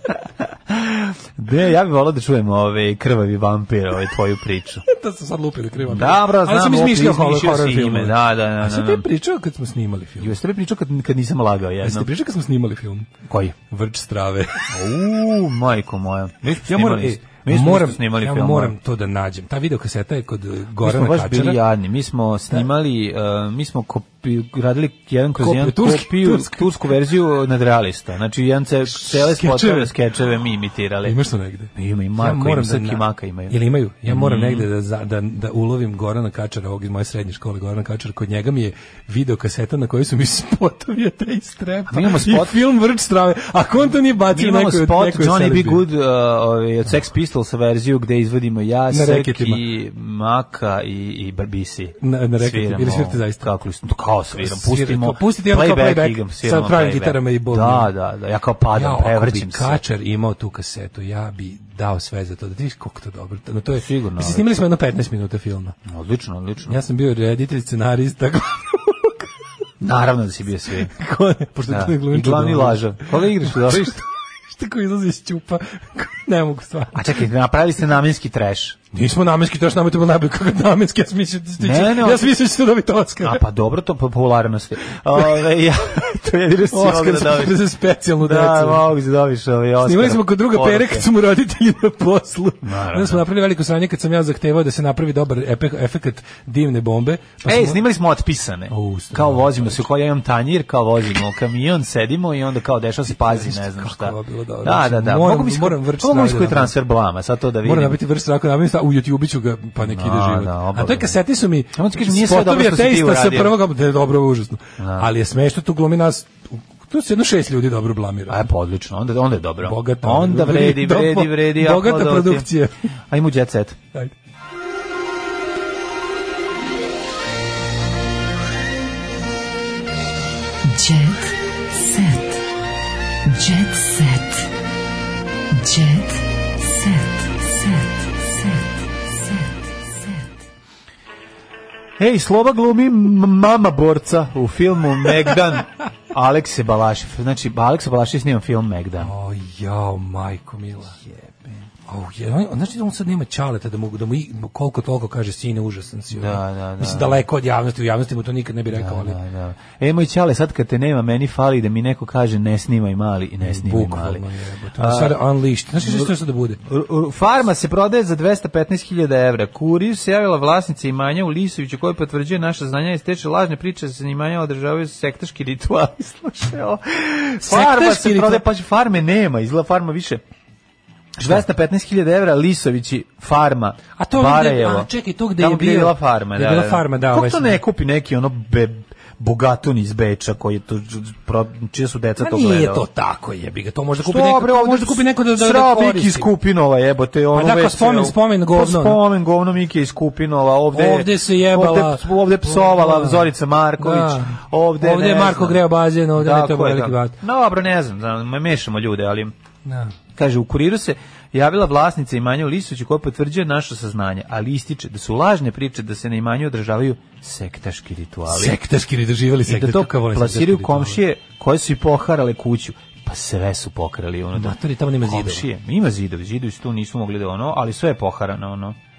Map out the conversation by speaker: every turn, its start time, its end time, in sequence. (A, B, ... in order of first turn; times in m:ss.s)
0:00.7-0:04.8 A
0:04.9-0:10.3 B
0:05.9-0:09.0 A
0:10.2-0:12.1 A
0:11.8-0:13.1 B
0:13.2-0:13.5 A
0:13.6-0:14.6 B
0:14.7-0:18.7 A
0:16.6-0:21.6 B
0:20.8-0:31.2 A
0:25.4-0:26.7 B
0:28.9-0:29.9 B
0:31.0-0:45.8 B
0:31.7-0:34.7 A
0:41.9-0:42.6 A
0:44.3-0:59.8 A
0:48.9-0:49.6 B
0:52.0-0:53.5 B
0:54.3-0:57.9 B
0:58.7-1:05.8 B
1:03.7-1:04.5 A
1:05.8-1:06.8 A
1:06.6-1:09.3 B
1:09.8-1:10.9 A
1:10.9-1:17.0 B
1:11.7-1:14.0 A
1:16.9-1:18.8 A
1:18.9-1:23.4 B
1:21.6-1:22.4 A
1:23.2-1:27.6 A
1:26.7-1:28.8 B
1:28.2-1:31.0 A
1:29.8-1:37.8 B
1:32.6-1:33.2 A
1:37.4-1:48.0 A
1:38.7-1:39.8 B
1:43.1-1:46.7 B
1:47.6-1:58.4 B
1:49.8-1:51.2 A
1:51.7-1:53.6 A
1:54.8-1:55.1 A
1:58.3-2:02.5 A
1:59.6-2:02.8 B
2:03.1-2:03.8 A
2:10.7-2:12.4 C
2:13.3-2:14.5 C
2:15.6-2:18.6 C
2:22.0-2:29.1 A
2:29.0-2:31.0 B
2:31.0-2:31.6 A
2:31.9-2:39.2 B
2:36.1-2:37.2 A
2:38.7-2:44.2 A
2:43.4-2:46.6 B
2:44.8-2:45.2 A
2:45.8-2:46.1 A
2:46.6-3:00.2 A
2:57.4-2:58.4 B
3:01.2-3:12.8 A
3:04.0-3:07.6 B
3:12.2-3:16.3 B
3:14.0-3:29.3 A
3:17.3-3:19.0 B
3:20.7-3:27.2 B
3:29.6-3:29.9 B
3:30.1-3:38.6 A
3:38.3-3:41.0 B
3:39.4-3:48.8 A
3:44.3-3:45.5 B